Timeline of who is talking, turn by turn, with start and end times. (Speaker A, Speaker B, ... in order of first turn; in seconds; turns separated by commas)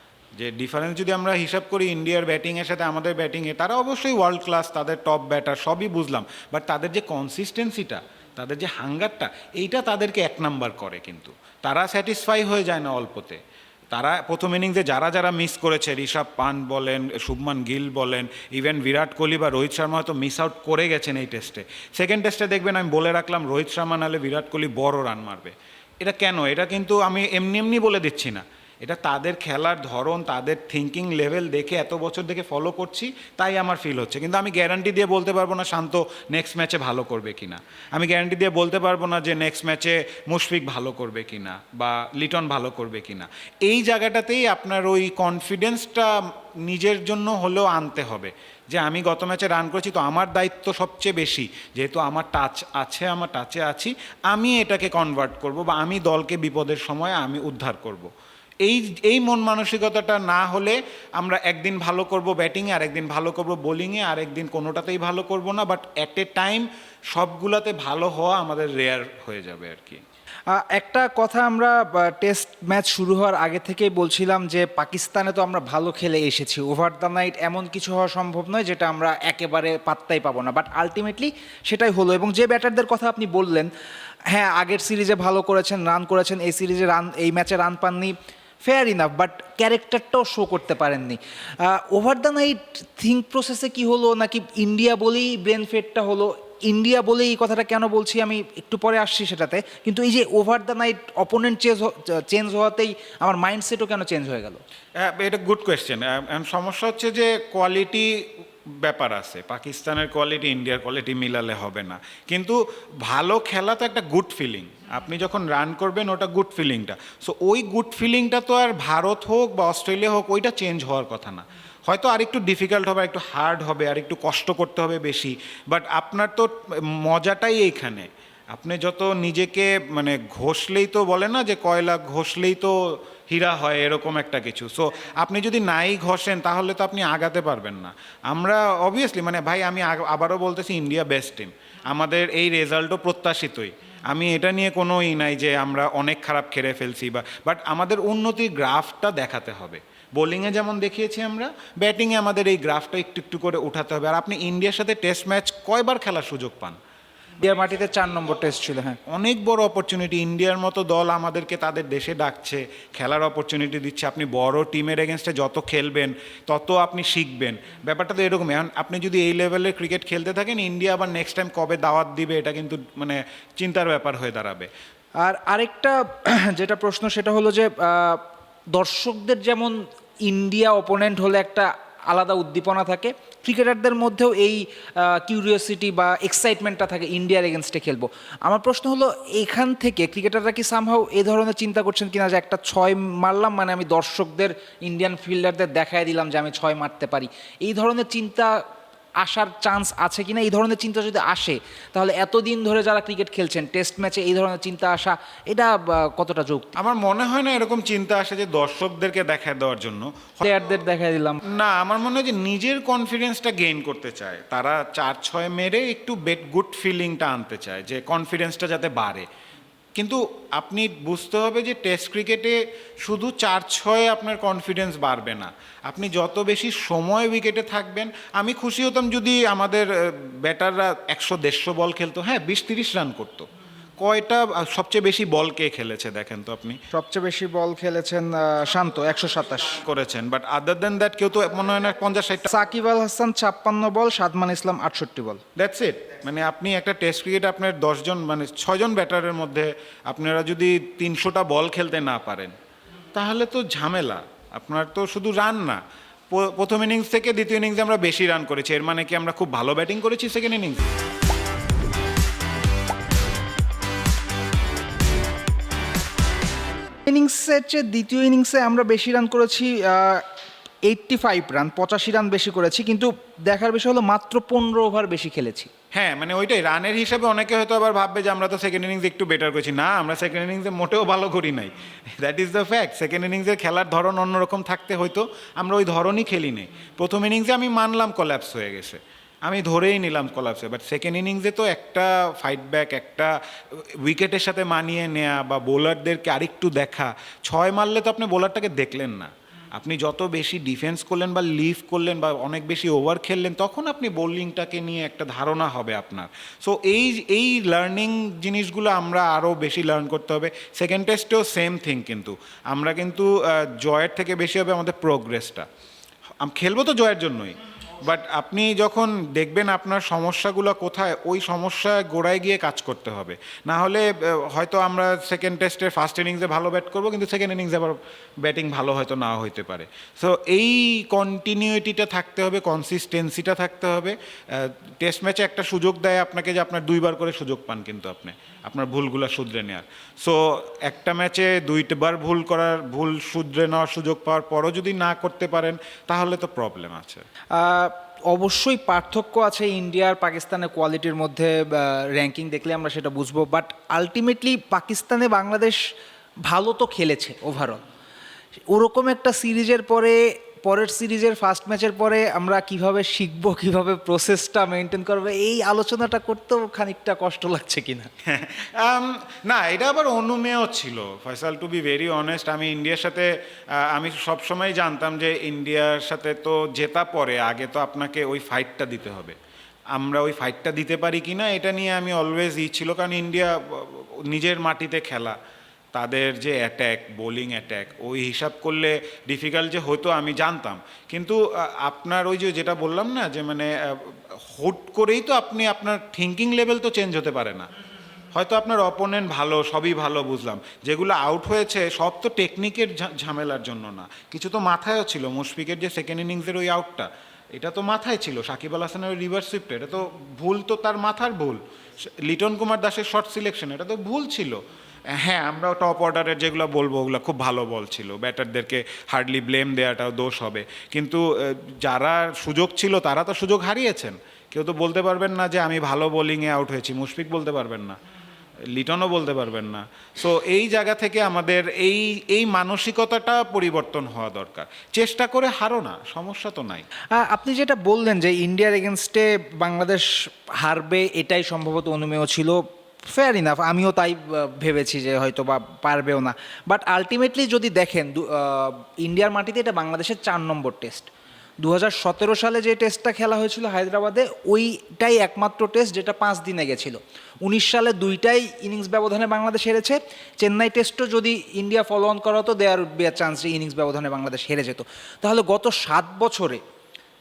Speaker A: 0.4-13.4, Speaker A: 13.9-58.1, Speaker A: 58.6-70.0, Speaker B: 70.5-83.7, Speaker B: 84.3-104.6, Speaker A: 105.0-156.8, Speaker B: 157.4-159.0, Speaker A: 159.1-174.7, Speaker B: 175.2-198.6, Speaker B: 199.2-206.7, Speaker A: 206.8-210.8, Speaker B: 210.4-211.4, Speaker A: 211.4-219.3, Speaker A: 220.0-233.5, Speaker A: 234.0-236.8, Speaker B: 236.9-239.8, Speaker A: 239.7-242.5, Speaker B: 242.5-245.4, Speaker A: 245.6-252.6, Speaker A: 253.1-260.9, Speaker B: 267.1-270.2, Speaker B: 270.8-275.7, Speaker A: 275.9-315.7, Speaker A: 316.4-347.2, Speaker B: 347.5-355.9, Speaker B: 356.4-357.8, Speaker B: 358.7-368.1, Speaker A: 368.2-379.4, Speaker A: 379.9-385.4, Speaker A: 385.9-397.7, Speaker A: 398.3-428.0, Speaker A: 428.7-436.9, Speaker B: 437.1-451.1, Speaker B: 451.6-466.6